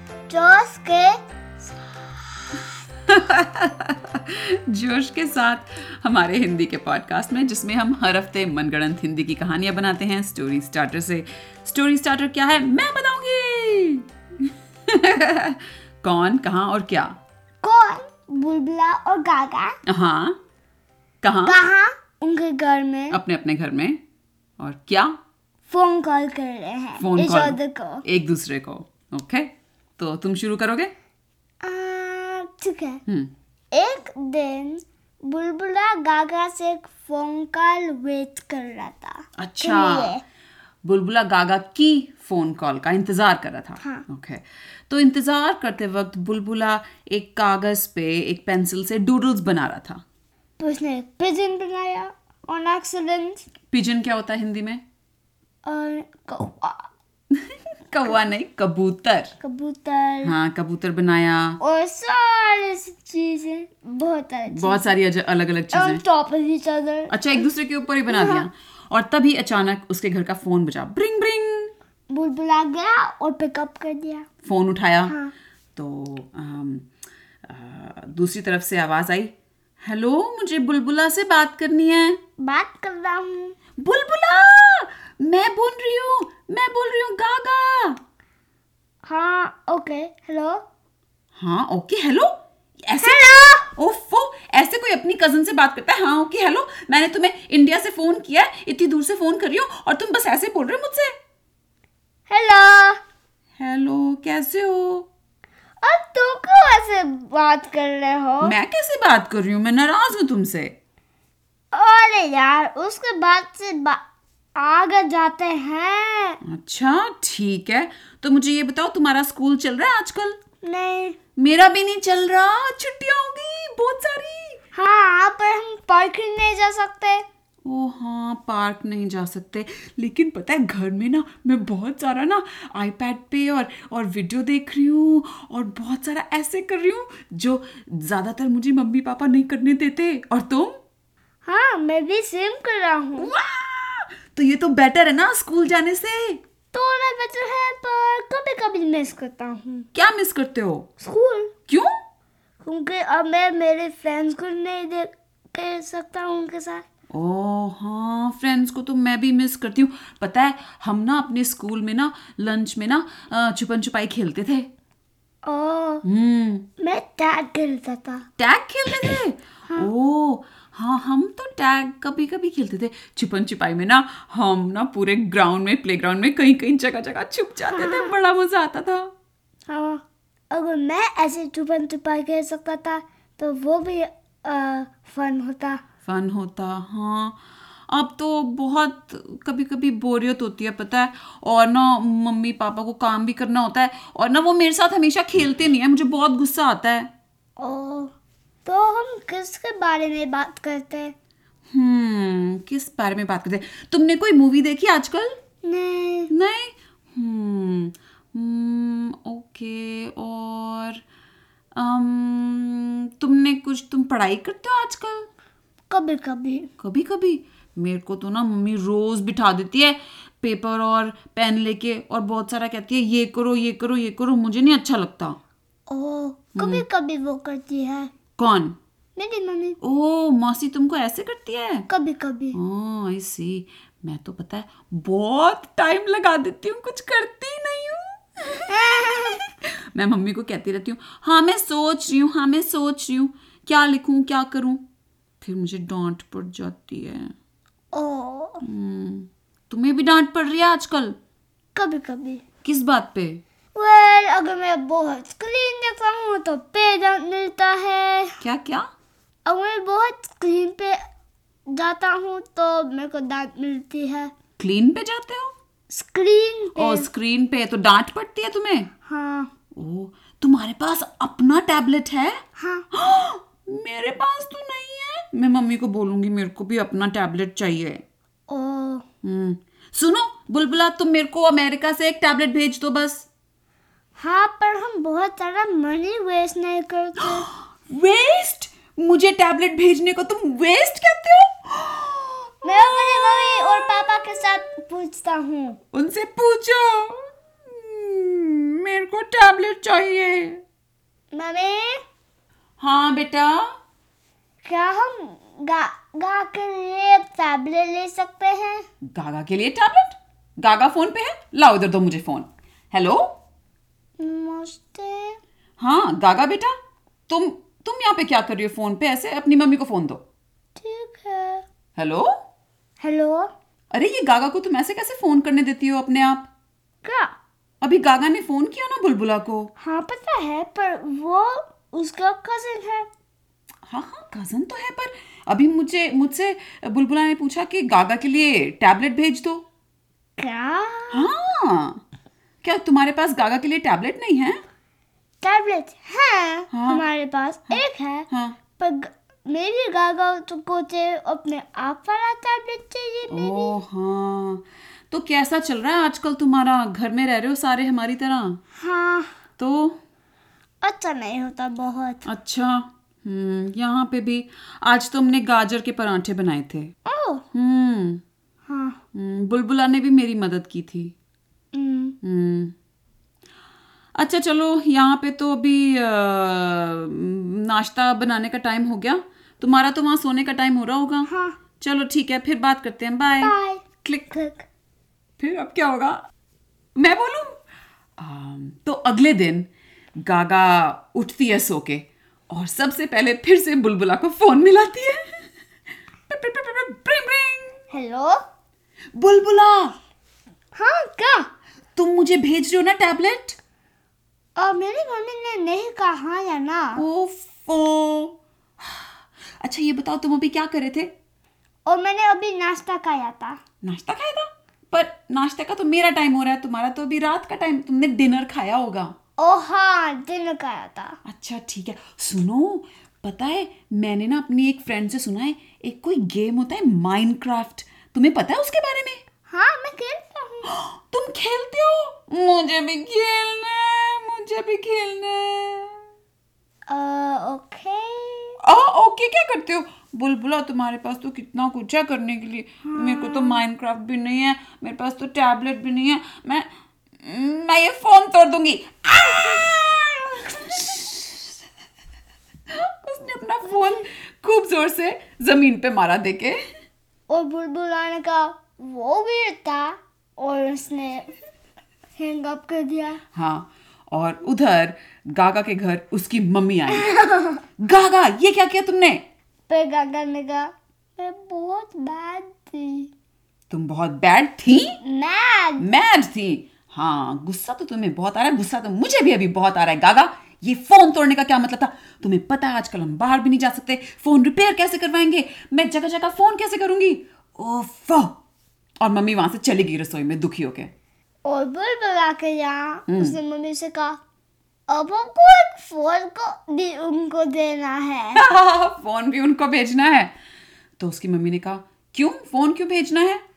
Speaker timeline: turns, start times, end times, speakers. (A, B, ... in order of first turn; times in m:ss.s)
0:00.3-0:01.2 A
0:03.0-0:17.2 B
0:17.6-0:19.8 A
0:19.8-0:20.4 B
0:21.2-0:21.6 B
0:21.4-0:23.2 A
0:23.1-0:24.0 B
0:24.6-0:25.2 B
0:25.7-0:28.0 A
0:27.0-0:30.9 B
0:31.6-0:33.0 A
0:33.1-0:33.3 B
0:33.7-0:40.2 A
0:39.4-0:40.1 B
0:40.8-0:50.0 B
0:43.8-0:44.0 A
0:50.6-0:53.4 A
0:53.7-0:54.8 B
0:55.6-0:56.9 A
0:57.3-0:59.3 B
0:59.4-1:00.3 A
1:00.2-1:01.6 B
1:01.6-1:04.9 A
1:04.5-1:06.0 B
1:05.7-1:07.4 A
1:07.1-1:11.7 B
1:08.1-1:08.4 A
1:12.1-1:14.2 A
1:14.4-1:15.1 B
1:15.1-1:15.3 A
1:15.7-1:16.9 B
1:17.4-1:22.2 B
1:22.4-1:23.6 A
1:23.8-1:28.0 B
1:29.0-1:30.6 A
1:31.4-1:32.3 B
1:32.8-1:41.1 B
1:33.0-1:33.7 A
1:42.3-1:43.0 A
1:43.6-1:45.1 B
1:45.8-1:48.5 A
1:48.4-1:50.7 B
1:51.7-1:54.0 A
1:54.5-1:56.4 A
1:56.4-2:00.4 B
2:00.6-2:01.2 A
2:01.4-2:04.6 B
2:04.7-2:07.2 A
2:07.6-2:20.8 B
2:21.4-2:23.3 A
2:23.2-2:26.4 B
2:26.7-2:29.9 A
2:29.9-2:30.9 B
2:31.0-2:31.5 A
2:32.6-2:36.8 A
2:37.1-2:44.7 B
2:45.4-2:46.0 A
2:46.0-2:46.7 B
2:46.8-2:48.2 A
2:48.4-2:59.1 B
2:57.7-2:58.1 A
2:59.7-3:05.8 A
3:06.0-3:07.4 B
3:07.9-3:17.1 B
3:17.6-3:18.1 A
3:18.6-3:21.1 A
3:21.7-3:25.4 B
3:25.6-3:26.3 A
3:26.3-3:31.0 B
3:31.7-3:35.3 B
3:35.9-3:36.7 A
3:36.8-3:45.4 B
3:45.9-3:48.1 A
3:46.6-3:46.8 B
3:48.4-3:48.8 B
3:49.2-3:49.8 A
3:49.8-3:51.9 B
3:51.9-3:52.6 A
3:52.5-4:04.8 B
3:58.7-3:59.4 A
4:05.4-4:07.3 B
4:07.9-4:08.6 A
4:08.6-4:11.2 B
4:11.7-4:12.4 A
4:12.6-4:13.4 B
4:13.7-4:18.4 A
4:18.4-4:18.9 B
4:19.4-4:21.0 A
4:21.7-4:24.3 A
4:24.6-4:25.5 B
4:25.9-4:27.1 A
4:26.8-4:28.9 B
4:29.0-4:29.5 A
4:29.7-4:32.4 B
4:32.6-4:32.8 A
4:32.9-4:38.0 B
4:38.5-4:39.0 A
4:39.2-4:43.3 B
4:44.2-4:47.4 A
4:47.4-4:54.1 B
4:52.6-4:55.8 A
4:55.9-5:00.6 B
5:01.3-5:02.0 A
5:02.8-5:03.7 B
5:04.6-5:08.8 A
5:09.1-5:13.3 B
5:14.2-5:15.4 A
5:15.8-5:16.7 B
5:17.3-5:20.2 B
5:20.8-5:21.6 A
5:22.0-5:22.3 B
5:23.0-5:23.5 A
5:23.9-5:26.5 B
5:27.0-5:27.3 A
5:27.8-5:29.7 B
5:29.8-5:33.1 A
5:33.8-5:39.6 B
5:40.4-5:41.3 A
5:41.1-5:42.0 B
5:42.6-5:44.6 B
5:45.4-5:53.8 A
5:46.7-5:47.0 B
5:47.7-5:48.6 B
5:53.3-5:58.6 B
5:58.8-5:59.4 A
5:59.6-6:00.0 B
6:00.8-6:02.2 A
6:02.2-6:06.9 B
6:07.0-6:07.4 A
6:07.5-6:08.2 B
6:08.7-6:09.0 A
6:09.1-6:11.1 B
6:11.7-6:12.2 A
6:12.2-6:12.7 B
6:14.2-6:21.3 B
6:21.2-6:21.6 A
6:21.8-6:24.3 B
6:23.4-6:24.6 A
6:25.4-6:26.2 B
6:27.0-6:27.6 B
6:28.2-6:29.7 B
6:30.2-6:35.4 B
6:36.3-6:37.8 B
6:37.9-6:38.4 A
6:39.2-6:40.0 B
6:40.8-6:41.5 A
6:42.0-6:43.6 B
6:44.6-6:47.0 A
6:47.0-6:51.1 B
6:51.8-6:53.6 A
6:53.8-6:59.1 B
6:59.4-7:01.2 A
7:01.2-7:09.2 B
7:09.5-7:10.7 A
7:10.7-7:16.0 B
7:16.9-7:18.6 A
7:18.6-7:26.7 B
7:22.8-7:23.6 A
7:27.2-7:31.6 B
7:32.7-7:36.6 B
7:37.3-7:41.4 A
7:42.2-7:43.2 A
7:43.3-7:47.1 B
7:46.9-7:47.6 A
7:47.8-7:49.2 B
7:49.7-7:53.1 A
7:53.7-7:55.0 B
7:55.0-7:55.8 A
7:55.8-8:08.3 B
8:09.0-8:10.9 B
8:11.4-8:14.2 A
8:13.1-8:13.4 B
8:14.9-8:18.4 A
8:18.3-8:20.3 B
8:21.0-8:23.4 B